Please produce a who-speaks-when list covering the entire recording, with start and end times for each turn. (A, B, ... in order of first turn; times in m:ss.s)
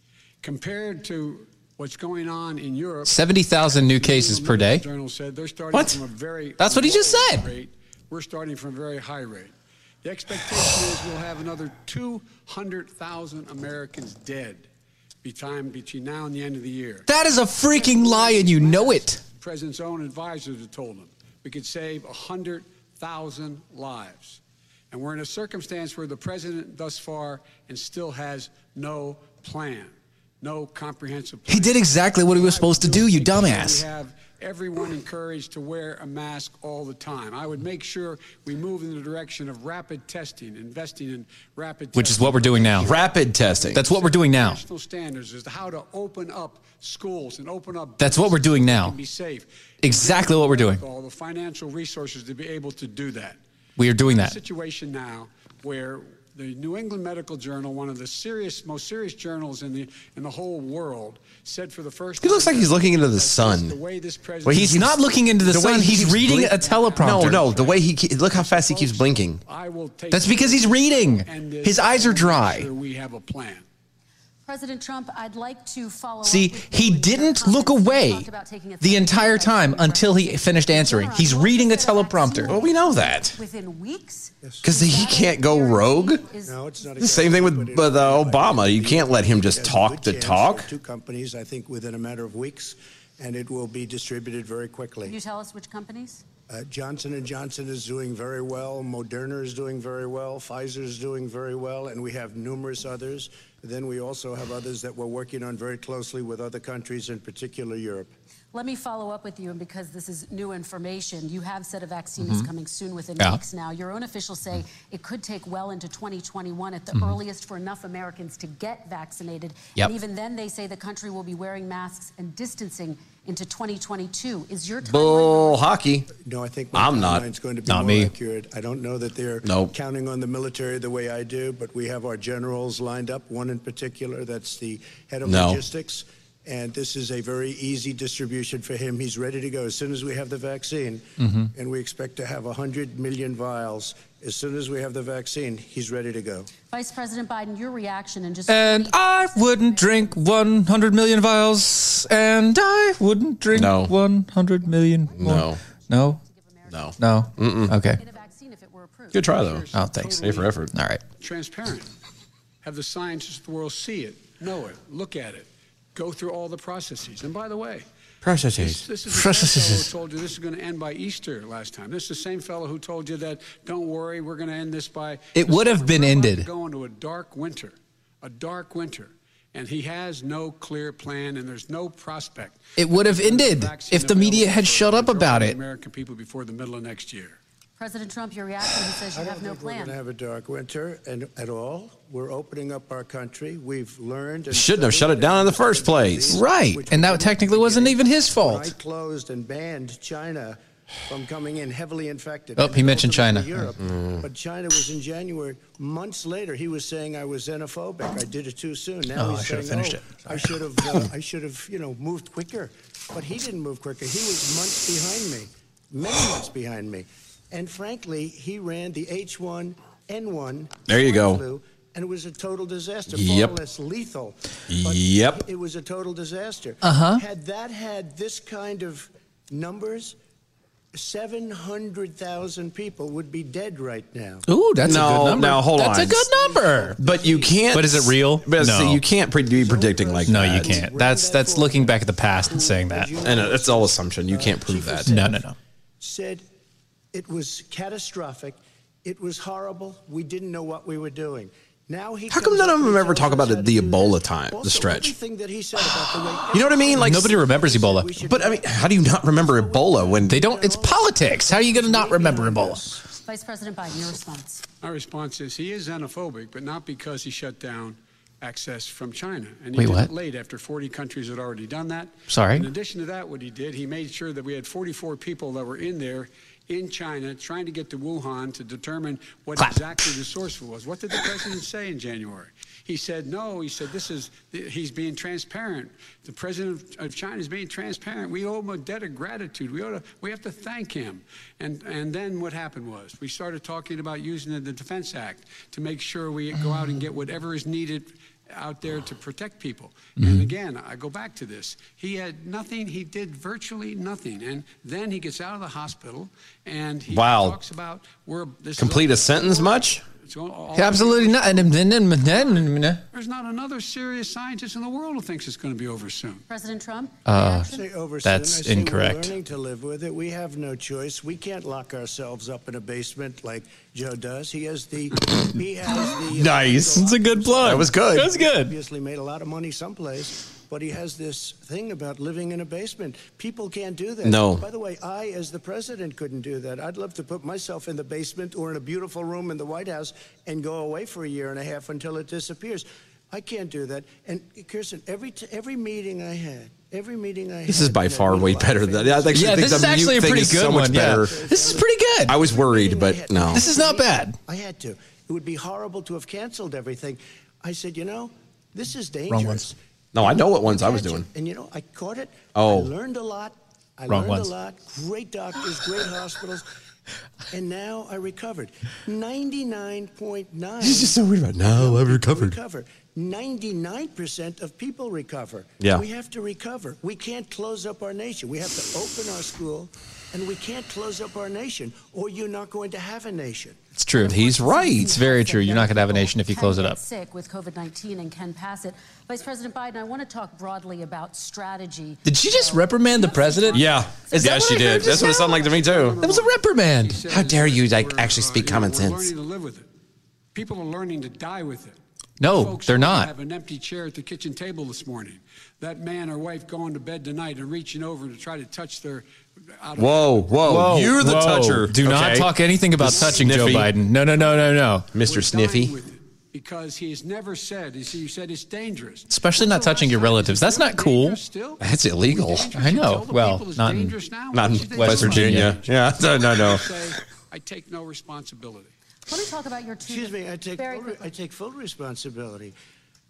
0:00.4-0:03.2 A
0:03.1-0:04.8 B
0:03.8-0:14.7 A
0:05.7-0:06.0 C
0:06.6-0:07.5 B
0:15.2-0:17.1 A
0:17.1-0:19.2 B
0:17.7-0:24.4 A
0:24.9-0:53.4 A
0:31.5-0:33.8 B
0:41.9-0:42.9 B
0:42.8-0:43.8 C
0:43.7-0:44.6 B
0:48.0-0:48.9 B
0:49.8-0:50.8 B
0:53.8-0:54.4 B
0:54.0-1:13.6 A
1:02.2-1:03.8 C
1:04.4-1:04.9 C
1:04.5-1:07.4 B
1:05.5-1:09.4 C
1:10.1-1:12.7 B
1:14.5-1:26.6 D
1:16.2-1:18.3 B
1:18.8-1:22.6 B
1:22.5-1:23.4 C
1:24.6-1:26.2 C
1:26.4-1:35.2 E
1:27.0-1:30.7 C
1:35.0-1:36.2 D
1:36.5-1:48.1 E
1:48.5-2:05.6 D
1:52.2-1:52.5 B
2:04.8-2:06.1 C
2:06.2-2:26.5 E
2:06.7-2:07.2 C
2:07.7-2:08.1 B
2:09.4-2:09.7 C
2:15.2-2:15.6 C
2:21.2-2:21.5 B
2:26.7-2:31.4 D
2:28.5-2:36.2 B
2:33.5-2:33.9 C
2:34.6-2:39.6 D
2:35.1-2:35.6 C
2:36.7-2:37.8 C
2:37.0-2:38.0 B
2:39.1-2:40.7 C
2:39.2-2:40.5 A
2:39.7-2:41.0 B
2:41.2-2:41.9 A
2:42.6-2:47.9 A
2:48.2-2:48.8 C
2:48.6-3:07.4 A
2:49.1-2:49.9 B
2:55.4-2:56.5 B
3:02.8-3:05.6 B
3:07.8-3:10.0 D
3:09.1-3:50.2 E
3:14.5-3:16.4 C
3:16.3-3:18.7 B
3:22.6-3:23.7 B
3:23.9-3:24.2 C
3:29.1-3:30.6 B
3:40.9-3:41.4 C
3:43.1-3:43.5 C
3:44.7-3:45.4 C
3:46.8-3:47.2 B
3:50.9-3:54.4 E
3:54.5-3:57.0 B
3:54.8-3:56.2 C
3:56.0-3:57.8 E
3:57.0-4:00.8 C
3:57.7-3:59.0 B
3:59.4-4:06.4 E
4:00.2-4:03.1 B
4:03.2-4:05.1 C
4:05.0-4:05.5 B
4:07.1-4:23.0 E
4:12.3-4:15.1 C
4:16.5-4:17.3 C
4:17.0-4:18.2 B
4:18.2-4:20.4 C
4:20.2-4:22.8 B
4:23.2-4:24.6 D
4:24.8-5:16.4 A
4:29.8-4:30.1 B
4:32.3-4:32.7 B
5:00.2-5:00.5 B
5:07.1-5:07.6 C
5:08.8-5:10.0 C
5:10.8-5:13.0 B
5:16.5-5:17.8 D
5:17.2-5:17.7 B
5:17.7-6:06.6 E
5:18.2-5:19.3 B
5:26.3-5:27.0 C
5:27.0-5:28.8 B
5:27.6-5:28.3 C
5:34.2-5:34.6 C
5:47.7-5:51.5 C
5:49.3-5:52.4 B
5:52.3-5:53.6 C
5:53.5-5:54.4 B
5:59.3-5:59.7 B
6:00.1-6:01.3 C
6:02.5-6:02.9 C
6:04.1-6:04.5 B
6:07.5-6:23.8 E
6:10.8-6:12.6 C
6:15.8-6:16.0 C
6:24.0-6:24.4 B
6:24.2-6:34.5 D
6:24.2-6:25.1 C
6:25.0-6:27.0 B
6:32.2-6:35.6 B
6:33.7-6:36.2 C
6:35.3-6:39.9 A
6:36.2-6:37.2 B
6:37.3-6:39.3 C
6:40.5-6:50.8 A
6:42.4-6:43.3 B
6:50.0-6:53.9 C
6:50.6-6:55.1 B
6:53.1-6:53.9 A
6:55.1-6:55.9 C
6:55.2-7:08.9 A
6:59.3-7:01.4 B
7:01.8-7:02.7 C
7:02.7-7:04.2 B
7:04.5-7:06.9 C
7:04.9-7:05.8 B
7:09.3-7:11.2 D
7:10.0-7:12.7 E